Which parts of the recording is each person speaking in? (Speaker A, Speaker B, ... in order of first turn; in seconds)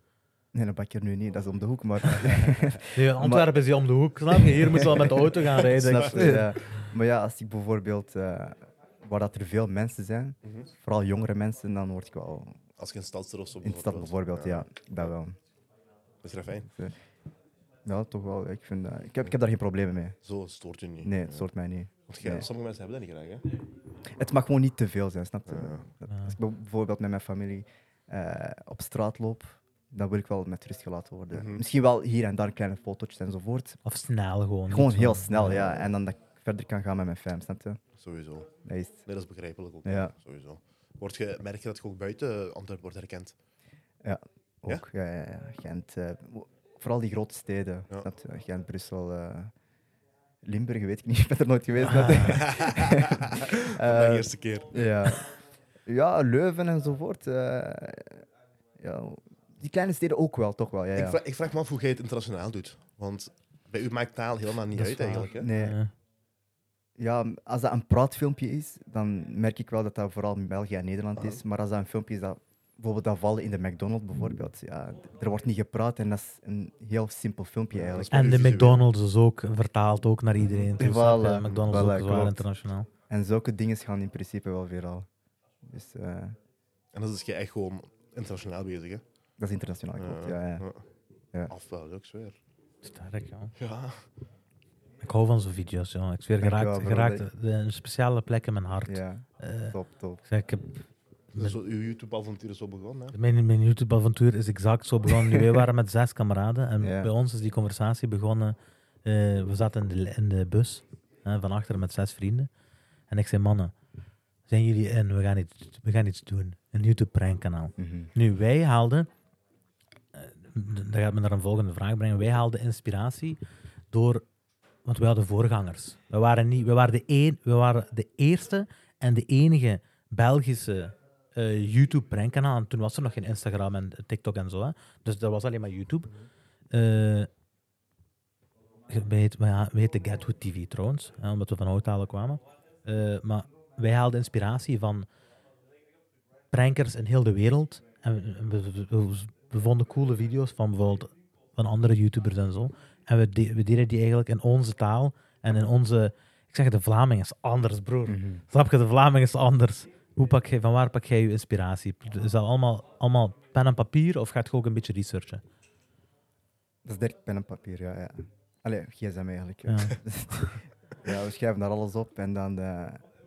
Speaker A: 0.5-3.5, 4.3-12.6, 13.6-15.3, 16.7-16.9, 17.8-20.2, 21.0-22.5, 24.1-33.8, 34.7-37.8, 38.6-39.0, 39.8-40.1, 44.0-49.5, 50.4-55.2, 55.9-58.2, 58.8-61.2, 65.3-65.8, 67.0-78.3, 80.8-82.4, 83.1-85.1, 85.6-86.3, 89.4-90.6, 96.4-97.3, 98.8-100.2, 106.8-107.1, 117.8-118.1, 158.1-158.4, 166.8-173.0
Speaker B: 2.2-2.7, 5.5-6.5, 12.8-15.1, 16.2-16.7, 20.2-21.5, 22.1-23.4, 25.5-25.8, 31.3-31.6, 38.0-38.5, 39.1-43.3, 52.2-55.3, 60.9-65.5, 77.7-78.8, 81.5-81.7, 86.9-89.0, 90.0-90.8, 91.5-92.4, 93.6-94.0, 101.3-103.2
Speaker C: 2.9-6.9, 26.1-26.4, 33.8-35.8, 51.8-52.4, 64.7-65.9, 78.1-82.9, 92.8-93.5, 95.0-99.7, 100.3-100.8, 103.1-112.5, 113.1-113.7, 114.5-119.1, 120.1-123.4, 123.9-124.2, 124.8-136.1, 136.7-137.3, 138.9-145.1, 146.5-165.4, 169.7-170.0